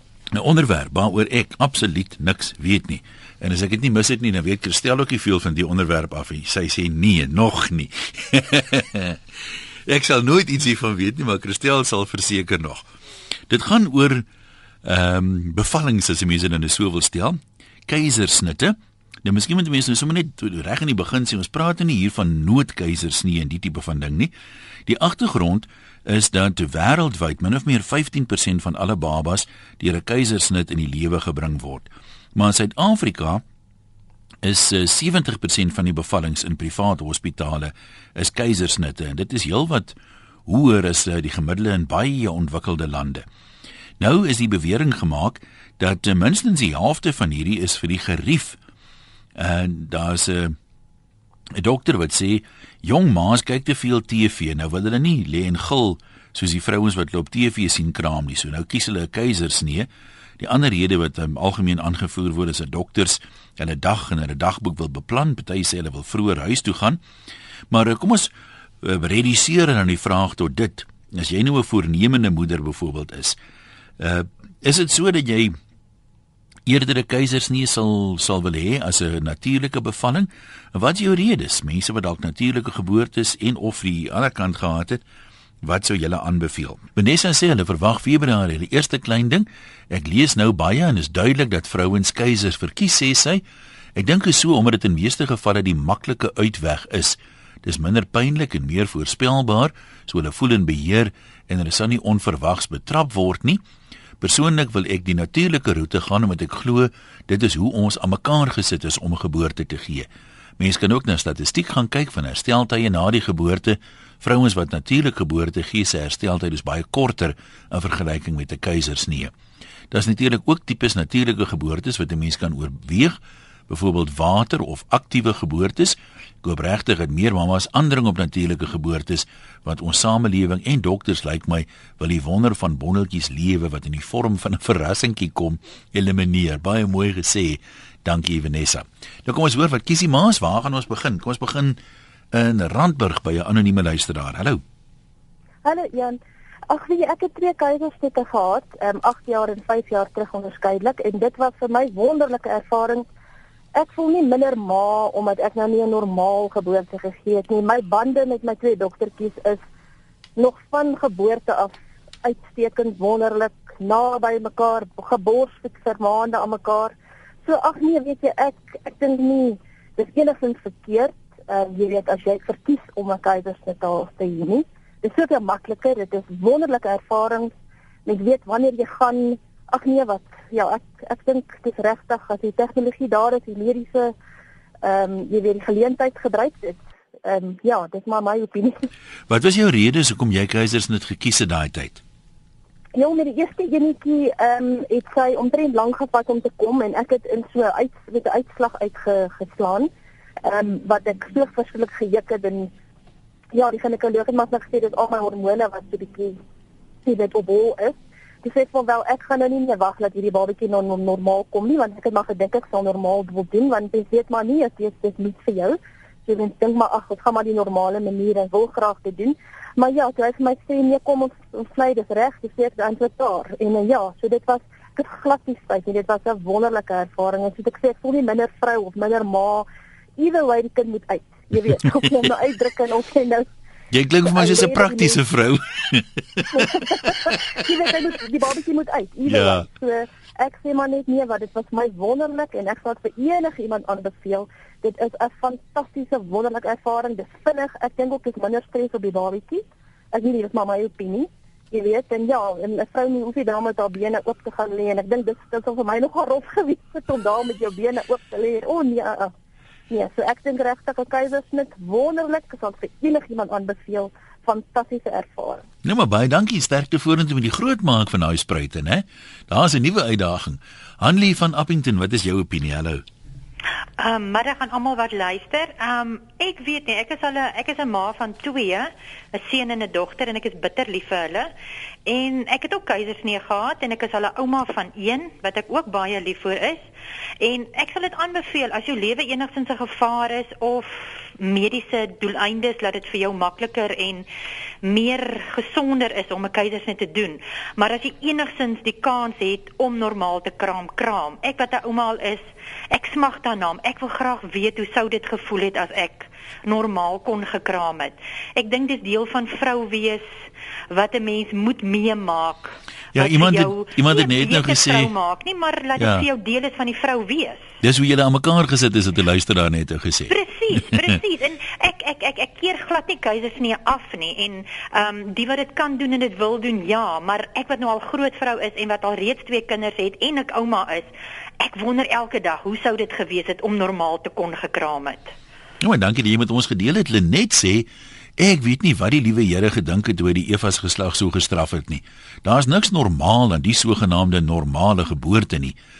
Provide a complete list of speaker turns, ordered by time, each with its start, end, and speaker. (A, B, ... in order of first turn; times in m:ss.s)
0:00.3-0:09.2 A
0:09.9-0:12.9 A
0:13.5-0:14.2 A
0:14.8-0:24.3 A
0:24.9-0:33.4 A
0:34.4-0:40.0 A
0:40.5-0:43.2 A
0:44.0-0:48.6 A
0:49.4-0:50.6 A
0:51.6-0:59.9 A
1:00.4-1:07.0 A
1:07.7-1:08.3 A
1:08.8-1:13.4 A
1:14.0-1:15.6 A
1:16.7-1:25.0 A
1:25.6-1:33.4 A
1:34.0-1:43.6 A
1:44.2-1:50.1 A
1:50.6-1:59.3 A
1:59.9-2:21.8 A
2:22.3-2:24.6 A
2:25.6-2:33.1 B
2:33.8-2:39.6 B
2:40.4-2:46.9 B
2:47.4-2:57.5 B
2:58.1-3:04.1 B
3:04.8-3:08.8 B
3:09.3-3:12.0 A
3:12.9-3:19.9 B
3:20.4-3:22.7 B
3:23.5-3:26.4 B
3:27.0-3:53.5 B
3:53.9-3:57.4 A
3:54.2-3:55.2 B
3:56.5-4:19.3 B
3:59.3-3:59.6 A
4:19.9-4:25.6 B
4:25.8-4:33.0 A
4:34.0-4:41.5 C
4:42.1-4:46.8 C
4:47.4-4:54.3 C
4:54.8-5:17.7 C
5:13.1-5:15.1 A
5:16.0-5:16.3 A
5:17.8-5:20.3 A
5:20.3-5:35.3 C
5:35.8-5:45.8 A